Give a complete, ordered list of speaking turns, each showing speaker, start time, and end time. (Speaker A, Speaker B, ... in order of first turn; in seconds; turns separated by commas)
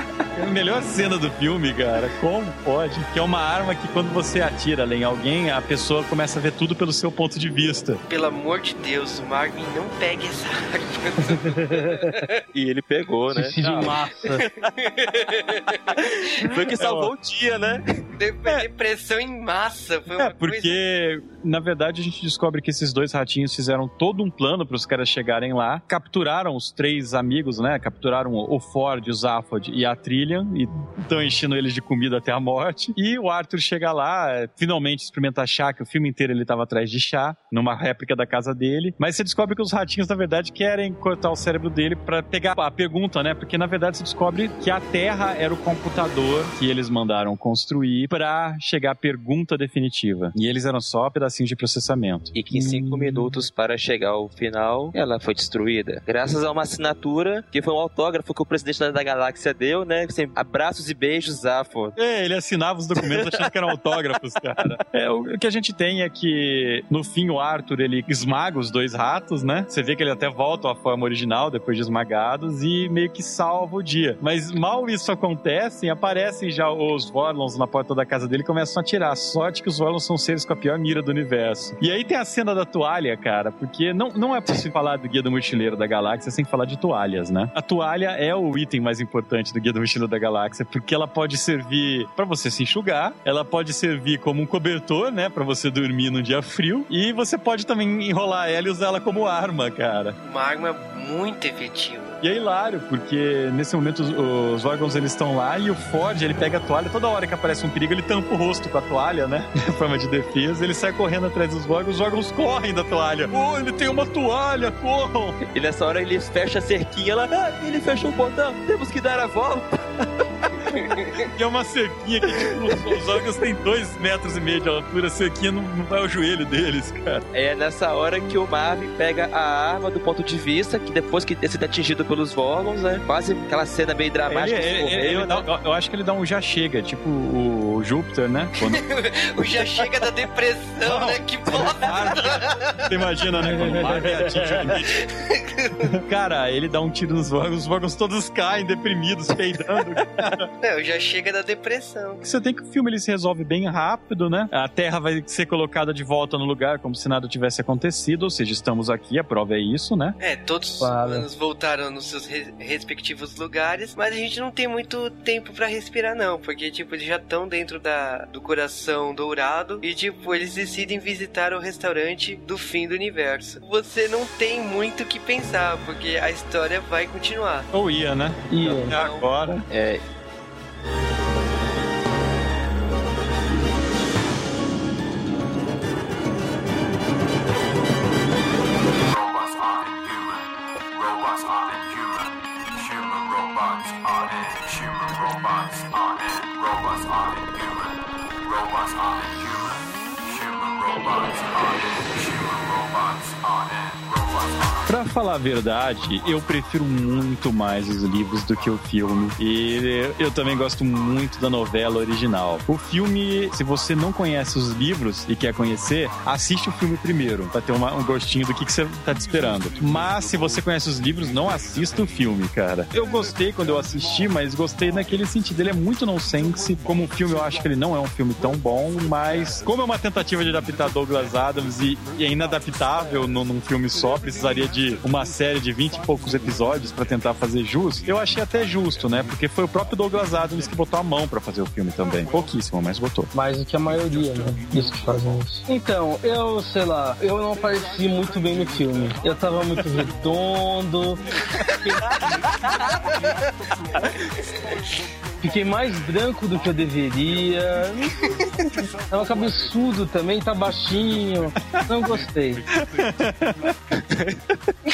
Speaker A: 0.3-8.0, Speaker B: 8.1-12.3, Speaker C: 11.5-11.8, Speaker D: 12.5-14.0, Speaker C: 13.3-14.5, Speaker B: 14.8-16.2, Speaker D: 15.9-18.0, Speaker A: 16.5-17.1, Speaker B: 18.2-20.8, Speaker A: 20.2-53.4, Speaker D: 52.4-62.0, Speaker A: 62.0-100.2, Speaker D: 63.0-63.5, Speaker B: 100.2-102.2, Speaker A: 102.2-115.4, Speaker D: 115.5-121.2, Speaker A: 121.2-127.2, Speaker D: 127.3-135.5, Speaker A: 134.3-138.8, Speaker B: 138.6-142.9, Speaker A: 140.8-145.0, Speaker C: 143.6-144.3, Speaker B: 144.7-145.9, Speaker A: 145.8-150.5, Speaker B: 150.6-152.2, Speaker A: 152.2-160.2, Speaker B: 160.2-177.7, Speaker C: 160.8-161.3, Speaker A: 177.7-179.7, Speaker C: 178.5-178.9, Speaker B: 178.9-179.2, Speaker D: 179.7-180.0, Speaker E: 189.0-204.8, Speaker A: 204.9-243.3, Speaker C: 243.3-251.2, Speaker C: 255.4-258.2, Speaker C: 258.8-262.6, Speaker A: 262.7-263.7, Speaker D: 264.1-264.4